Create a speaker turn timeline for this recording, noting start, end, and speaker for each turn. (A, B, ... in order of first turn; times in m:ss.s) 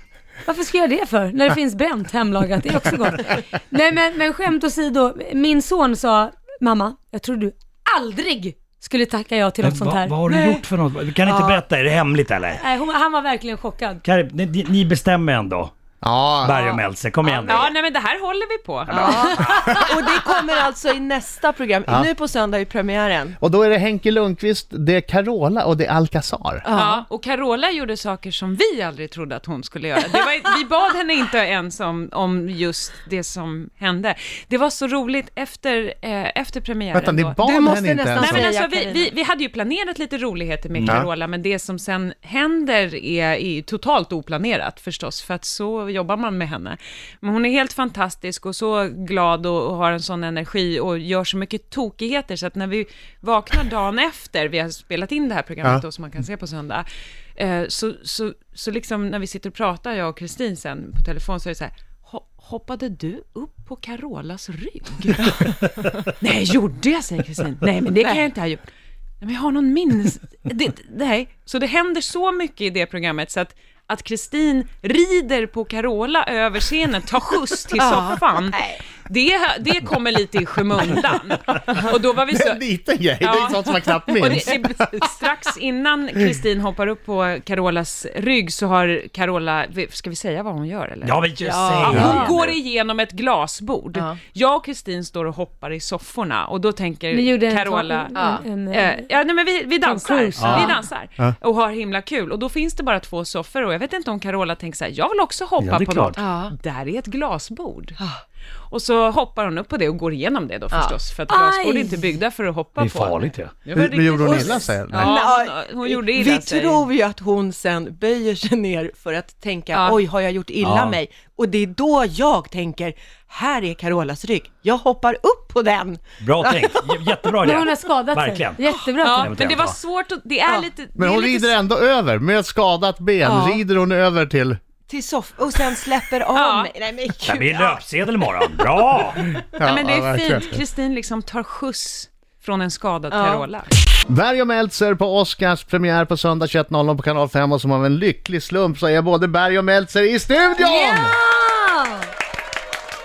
0:00.4-0:10.2 A
0:09.6-0:12.6 B
0:10.2-0:10.6 C
0:12.6-0:14.0 A
0:14.0-0:15.8 B
0:16.0-0:16.6 D
0:16.4-0:17.7 B
0:16.5-0:19.8 E
0:18.9-0:19.8 B
0:18.9-0:23.4 C
0:19.2-0:19.6 A
0:23.4-0:26.6 D
0:26.6-0:27.0 C
0:26.7-0:37.5 E
0:36.9-0:38.5 D
0:37.4-0:39.1 C
0:38.1-0:56.8 E
0:57.4-1:08.6 E
1:05.3-1:05.8 C
1:08.0-1:08.3 C
1:09.2-1:22.6 E
1:17.8-1:18.8 C
1:22.3-1:24.5 D
1:23.2-1:31.2 E
1:31.0-1:32.5 B
1:31.4-1:32.3 C
1:31.8-1:48.0 E
1:31.9-1:32.3 A
1:37.1-1:39.0 A
1:38.1-1:38.4 C
1:39.8-1:40.7 A
1:40.4-1:40.7 B
1:45.6-1:46.2 B
1:46.2-1:46.5 C
1:48.7-1:56.9 E
1:50.7-1:51.0 C
1:51.3-1:52.0 A
1:52.8-1:53.6 B
1:53.7-1:55.1 D
1:54.2-2:07.4 C
1:59.7-2:00.0 E
2:00.6-2:01.0 B
2:06.2-2:09.8 B
2:07.4-2:09.3 A
2:09.0-2:11.6 E
2:11.0-2:14.6 D
2:13.2-2:13.6 C
2:14.9-2:17.8 C
2:16.3-2:16.7 E
2:17.2-2:19.2 B
2:18.5-2:19.2 C
2:19.6-2:20.5 D
2:19.6-2:23.7 E
2:23.1-2:23.4 C
2:24.1-2:31.2 D
2:30.6-2:32.1 A